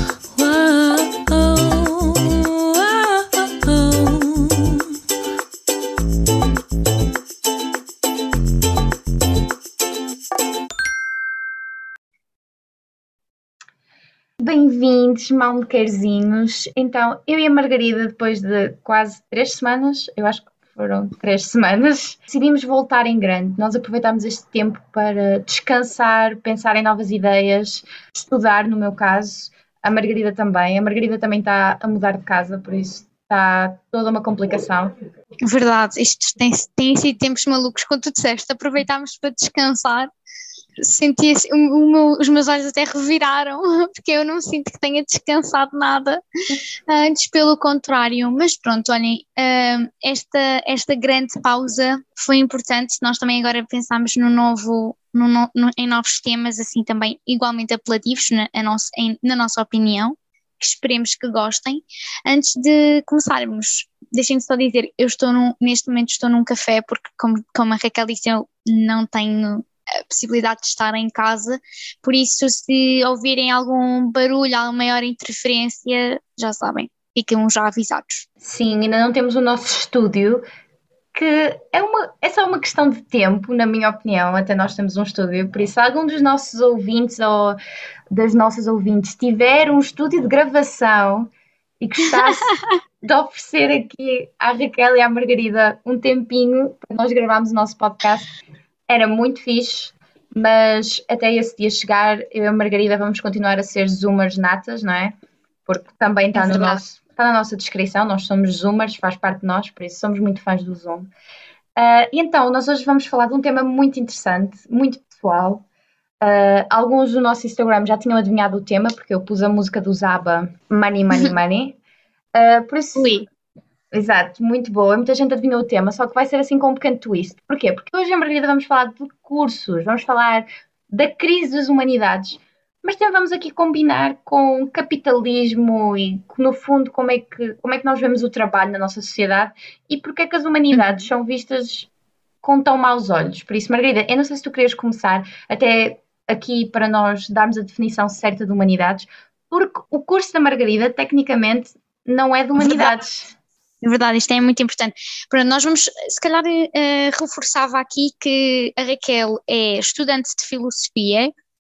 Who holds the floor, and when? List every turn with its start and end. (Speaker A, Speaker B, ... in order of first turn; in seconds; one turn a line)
Speaker A: 0.3-4.9
Speaker B: 14.4-34.9
Speaker C: 35.4-40.1
Speaker C: 40.8-46.2
Speaker C: 46.9-78.3
Speaker B: 78.4-80.4
Speaker B: 81.1-87.6
Speaker B: 88.1-92.5
Speaker C: 92.3-92.7
Speaker B: 93.0-98.3
Speaker B: 98.9-105.2
Speaker B: 105.7-111.1
Speaker C: 106.3-106.8
Speaker B: 111.8-115.7
Speaker B: 116.2-121.8
Speaker B: 122.3-123.2
Speaker C: 123.0-123.3
Speaker B: 123.9-141.9
Speaker B: 142.4-153.3
Speaker C: 152.6-152.9
Speaker C: 153.8-161.3